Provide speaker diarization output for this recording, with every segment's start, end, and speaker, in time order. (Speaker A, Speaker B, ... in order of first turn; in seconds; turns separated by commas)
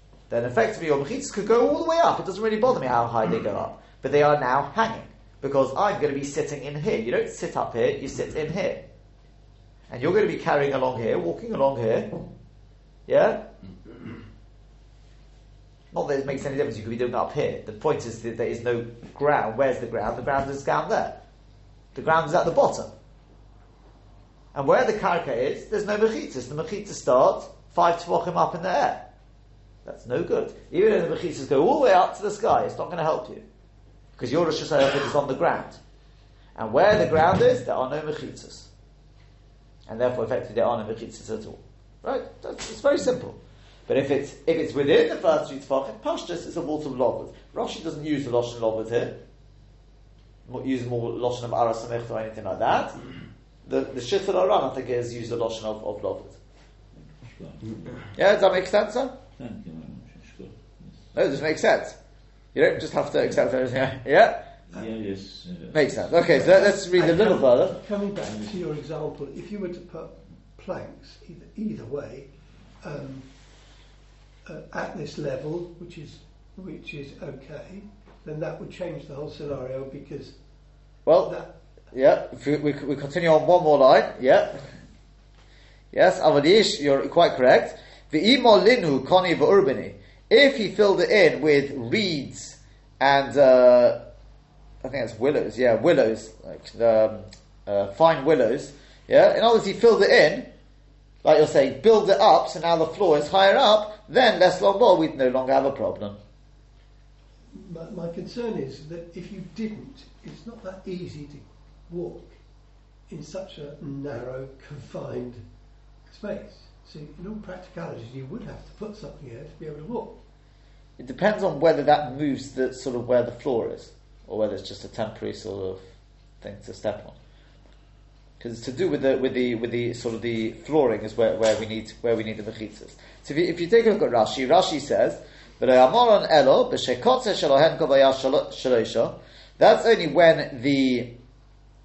Speaker A: 0.3-8.8, Speaker A: 9.9-12.2, Speaker A: 13.1-13.4, Speaker A: 15.9-21.2, Speaker A: 21.9-22.9, Speaker A: 24.5-29.1, Speaker A: 29.9-33.5, Speaker A: 34.2-35.8, Speaker A: 36.5-38.7, Speaker A: 39.9-49.2, Speaker A: 50.5-53.0, Speaker A: 53.7-56.4, Speaker B: 56.9-58.1, Speaker A: 58.1-59.1, Speaker B: 59.4-61.1, Speaker A: 61.1-62.0, Speaker A: 62.5-64.5, Speaker B: 64.7-66.8, Speaker A: 65.7-67.8, Speaker C: 66.5-72.3, Speaker B: 68.2-68.6, Speaker C: 72.8-73.3, Speaker C: 74.5-80.3, Speaker A: 81.1-81.4, Speaker C: 81.2-81.5, Speaker A: 81.9-84.7, Speaker A: 85.9-94.0, Speaker A: 94.8-100.5, Speaker A: 101.2-106.2, Speaker C: 107.5-112.3, Speaker C: 113.1-115.4, Speaker C: 116.1-120.2, Speaker A: 121.0-125.8, Speaker A: 126.4-127.2, Speaker A: 128.4-141.1